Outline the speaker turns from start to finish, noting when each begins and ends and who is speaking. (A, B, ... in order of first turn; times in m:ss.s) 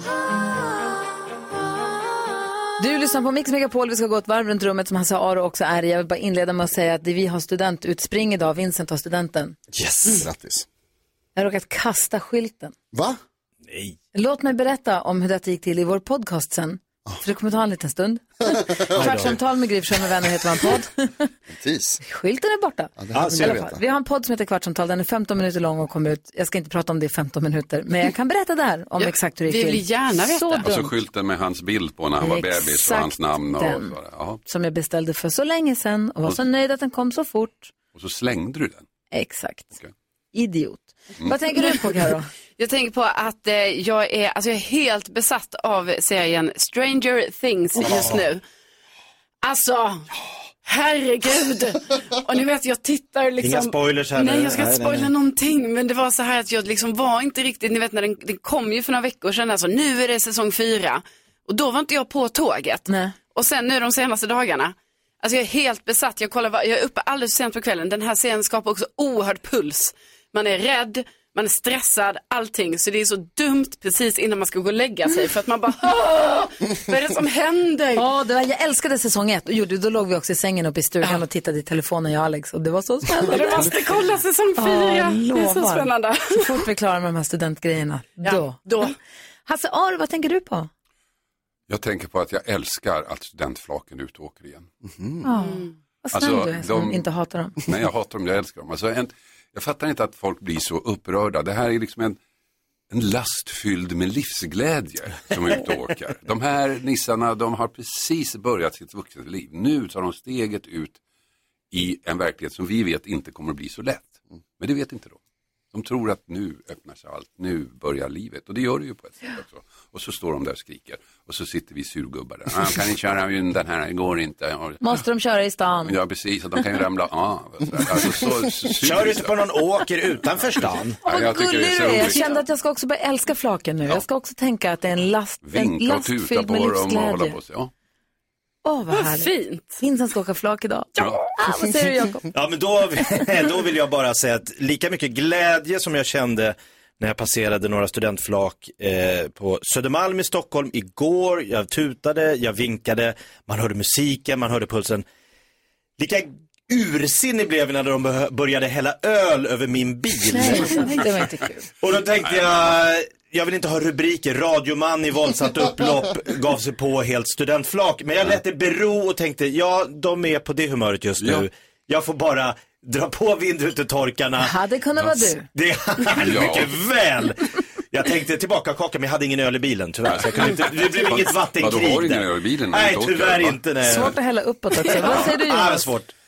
0:02.8-0:09.6 A
0:09.7-0:10.2 B
0:10.1-0:10.7 C
0:11.3-0:12.7 A
0:12.9-0:13.2 C
0:13.7-0:14.0 B
0:14.1-0:21.3 A
0:18.4-0:19.3 C
0:18.9-0:19.4 B
0:21.5-0:22.0 C
0:22.0-0:30.9 A
0:23.0-0:23.8 C
0:23.1-0:23.7 B
0:29.0-0:30.7 D
0:30.6-0:34.4 E
0:32.2-0:33.9 A
0:34.4-0:37.7 A
0:37.9-0:38.9 E
0:39.1-0:39.8 A
0:40.3-0:42.3 A
0:42.6-0:48.4 D
0:47.8-0:48.2 B
0:49.4-0:50.1 D
0:50.6-1:18.0 D
0:53.4-0:55.1 B
1:02.9-1:03.1 A
1:18.0-1:23.8 A
1:23.2-1:26.6 D
1:24.6-1:28.9 A
1:28.2-1:28.9 D
1:29.4-1:30.7 A
1:31.7-1:34.7 E
1:34.8-1:35.2 C
1:35.2-1:37.6 A
1:35.4-1:35.7 D
1:36.1-1:37.0 E
1:37.6-1:42.2 E
1:42.9-1:51.0 E
1:45.3-1:45.7 B
1:51.7-1:55.2 E
1:55.7-2:04.9 E
2:04.8-2:05.9 A
2:05.8-2:09.4 E
2:08.8-2:11.0 B
2:10.5-2:12.3 E
2:11.0-2:17.4 A
2:12.1-2:12.4 D
2:15.4-2:17.7 E
2:18.6-2:22.3 A
2:18.9-2:19.6 D
2:21.0-2:21.2 E
2:22.3-2:35.0 B
2:36.0-2:41.0 B
2:40.3-2:41.7 A
2:41.8-2:54.5 B
2:51.2-2:51.4 E
2:54.4-2:55.5 A
2:55.5-3:04.1 B
2:56.1-2:56.7 E
3:00.0-3:03.7 E
3:03.8-3:05.9 A
3:04.9-3:06.1 B